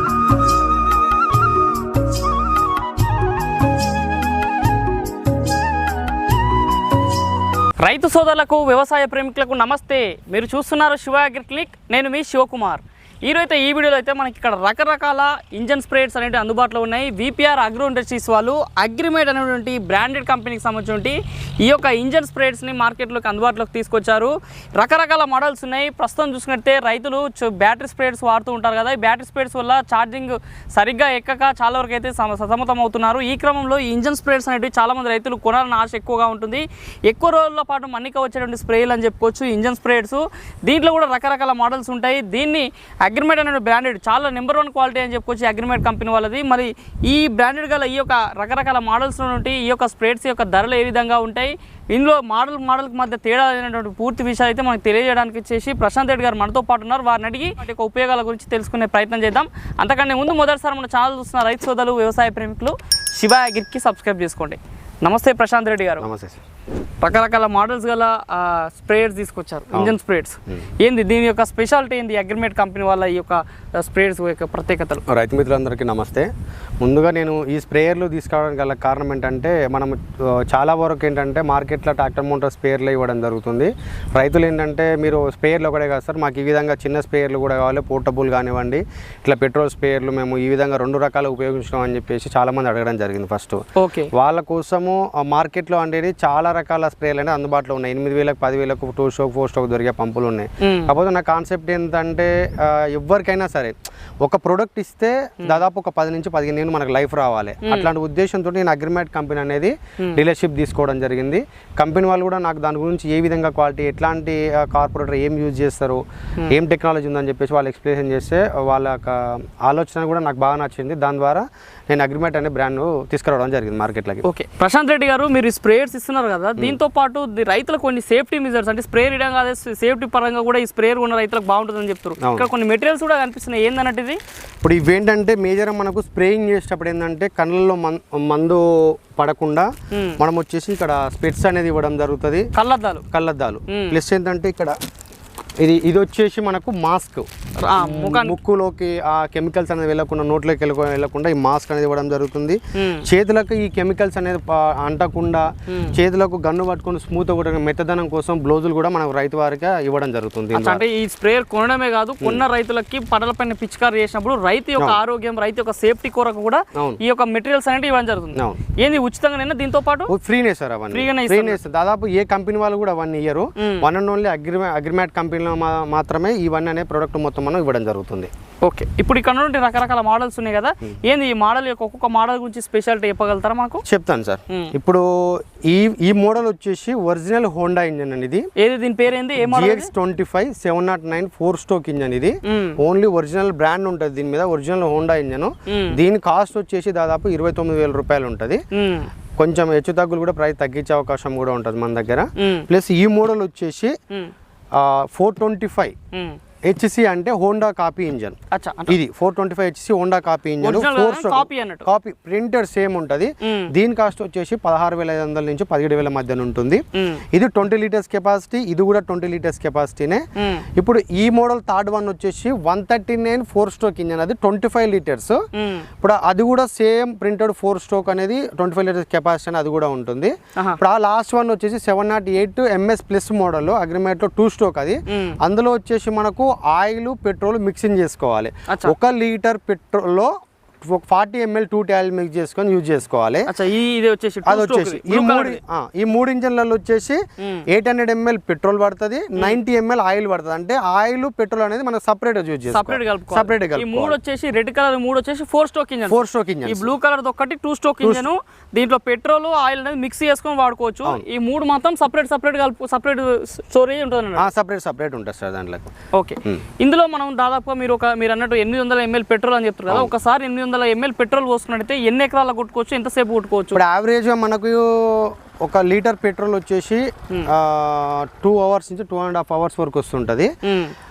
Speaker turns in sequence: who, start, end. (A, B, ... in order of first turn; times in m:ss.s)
0:07.8-1:06.0 A
1:06.0-1:06.4 B
1:07.0-1:15.0 A
1:15.1-1:16.3 B
1:16.8-1:33.6 B
1:33.8-1:34.1 A
1:34.1-2:04.2 B
1:40.6-1:40.9 A
1:47.6-1:47.9 A
2:04.2-2:14.2 A
2:12.2-2:12.5 B
2:14.6-2:19.7 B
2:19.9-2:20.2 A
2:20.2-2:22.5 B
2:22.6-2:23.0 A
2:23.1-2:24.8 B
2:23.7-2:24.0 A
2:25.6-2:40.8 B
2:27.6-2:28.4 A
2:32.7-2:33.0 A
2:35.7-2:36.0 A
2:40.5-2:50.1 A
2:46.8-2:47.0 B
2:48.4-2:48.6 B
2:50.1-2:58.3 B
2:50.9-2:51.6 A
2:53.6-2:53.8 A
2:58.6-3:03.8 A
3:03.9-3:08.5 B
3:08.6-3:09.9 A
3:09.4-3:18.6 B
3:12.4-3:12.8 A
3:15.7-3:16.0 A
3:18.7-3:19.1 A
3:19.4-3:23.9 B
3:22.4-3:22.7 A
3:24.8-3:26.0 B
3:26.1-3:26.4 A
3:26.7-3:28.4 B
3:28.5-3:29.0 A
3:28.9-3:40.2 B
3:30.6-3:31.9 A
3:33.4-3:33.7 A
3:37.0-3:37.2 A
3:40.4-3:40.6 A
3:40.8-3:45.4 B
3:45.6-3:45.8 A
3:46.0-4:00.3 B
3:55.1-3:55.4 A
3:58.7-3:59.0 A
4:00.8-4:03.5 B
4:03.5-4:05.6 A
4:04.4-4:14.2 B
4:07.4-4:07.6 A
4:12.7-4:24.5 A
4:16.1-4:16.9 B
4:18.0-4:18.3 B
4:24.4-4:25.9 B
4:26.1-4:33.8 A
4:33.7-4:40.5 B
4:40.6-4:41.0 A